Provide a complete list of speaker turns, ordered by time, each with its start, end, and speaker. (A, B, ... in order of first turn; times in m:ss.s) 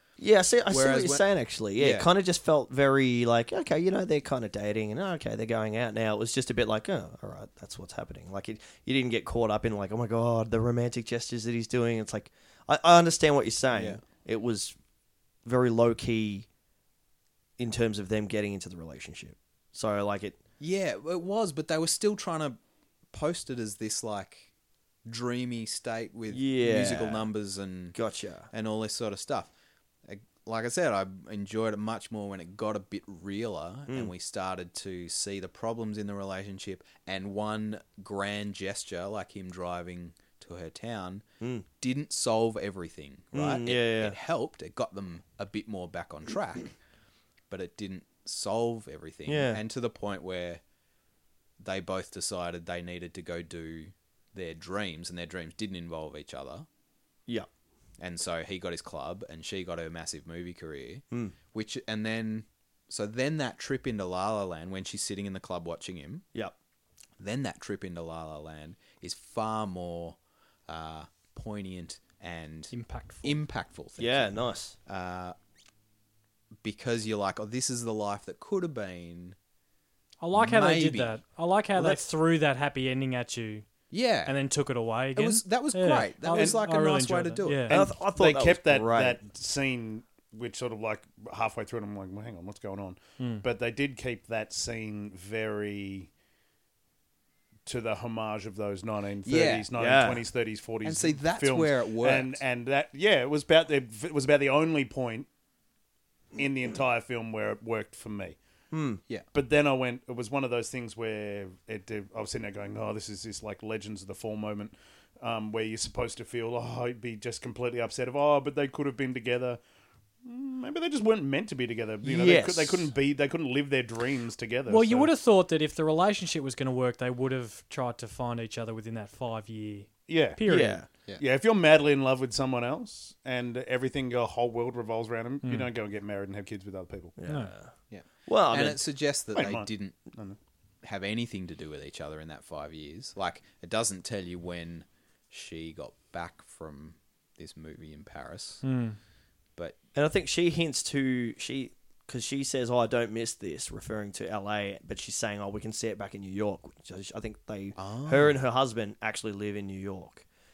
0:00.2-0:14.7 A
0:00.7-0:01.2 B
0:01.8-0:02.1 B
0:13.7-0:14.0 B
0:15.4-0:16.4 A
0:17.6-0:20.4 A
0:20.6-0:22.6 B
0:23.1-0:24.5 B
0:25.0-0:28.0 B
0:26.3-0:27.2 A
0:28.0-0:28.5 A
0:28.5-0:29.5 B
0:30.0-0:46.7 B
0:43.3-0:44.1 A
0:47.5-0:50.6 B
0:49.3-0:49.6 A
0:51.6-0:56.6 B
0:58.0-1:06.2 B
1:07.2-1:12.7 B
1:12.7-1:13.4 C
1:13.2-1:15.3 B
1:14.0-1:14.8 A
1:16.6-1:19.4 B
1:20.2-1:23.6 C
1:20.3-1:21.2 B
1:23.9-1:24.4 B
1:24.2-1:27.7 C
1:25.1-1:27.7 B
1:26.3-1:26.6 D
1:27.7-1:36.1 D
1:27.7-1:29.2 A
1:33.2-1:33.4 C
1:37.6-1:45.3 D
1:39.2-1:39.7 B
1:39.8-1:40.2 A
1:40.8-1:42.4 B
1:46.3-1:48.4 D
1:48.7-1:49.0 A
1:49.3-1:59.6 D
2:00.2-2:05.1 D
2:02.0-2:02.9 A
2:04.7-2:10.8 C
2:10.1-2:10.4 D
2:10.4-2:10.9 A
2:11.2-2:17.1 D
2:17.2-2:17.7 A
2:17.3-2:17.5 C
2:17.9-2:20.0 B
2:18.3-2:18.8 A
2:19.3-2:20.4 D
2:20.8-2:28.6 B
2:28.6-2:29.0 C
2:29.9-2:40.2 A
2:37.8-2:38.4 B